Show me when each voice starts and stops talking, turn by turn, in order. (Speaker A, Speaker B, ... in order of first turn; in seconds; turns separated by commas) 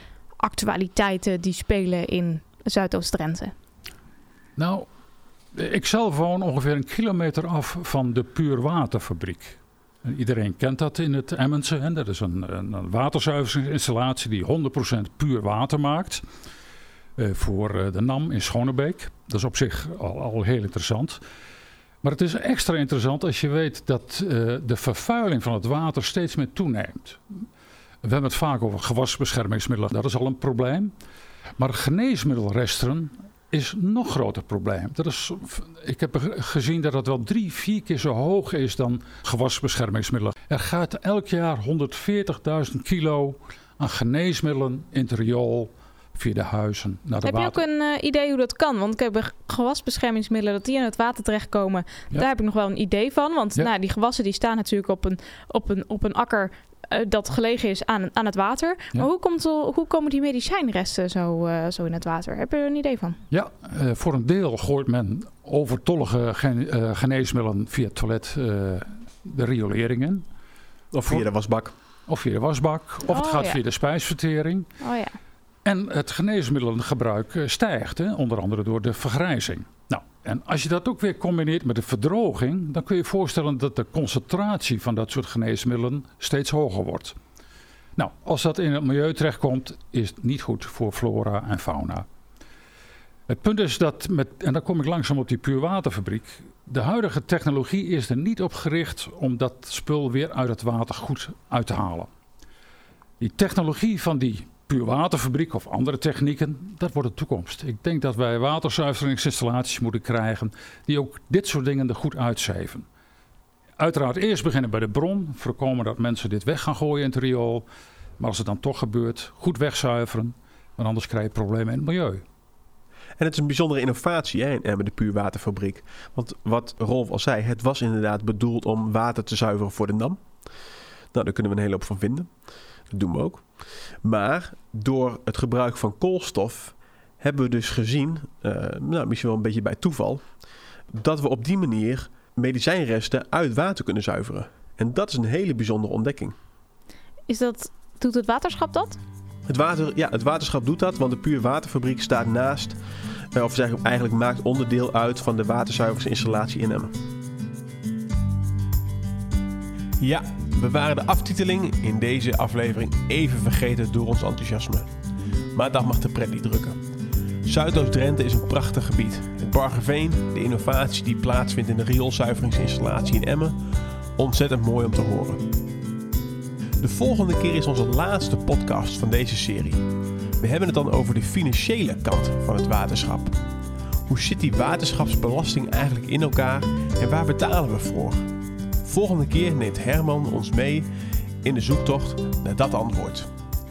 Speaker A: 0.4-3.5, Speaker B: 4.6-4.9, Speaker B: 5.5-16.2, Speaker B: 17.2-21.2, Speaker B: 22.0-27.4, Speaker B: 28.0-30.9, Speaker B: 31.6-47.6, Speaker A: 47.2-63.2, Speaker B: 63.3-70.2, Speaker C: 70.9-71.7, Speaker B: 72.1-74.7, Speaker A: 73.1-73.6, Speaker A: 74.8-75.2, Speaker B: 75.6-87.1, Speaker B: 88.0-92.0, Speaker B: 93.3-102.1, Speaker B: 103.2-112.8, Speaker B: 113.8-117.6, Speaker B: 118.2-122.2, Speaker C: 123.2-130.2, Speaker C: 131.1-132.3, Speaker C: 132.9-133.4, Speaker C: 134.0-140.2, Speaker C: 140.9-146.3, Speaker A: 147.3-149.0, Speaker C: 149.5-152.8, Speaker C: 153.3-156.9, Speaker C: 160.0-164.9, Speaker C: 165.5-166.8, Speaker C: 167.4-173.6, Speaker C: 174.2-175.4, Speaker C: 176.8-179.8, Speaker C: 180.4-183.3, Speaker C: 184.1-188.2, Speaker C: 188.8-190.9, Speaker C: 191.4-193.3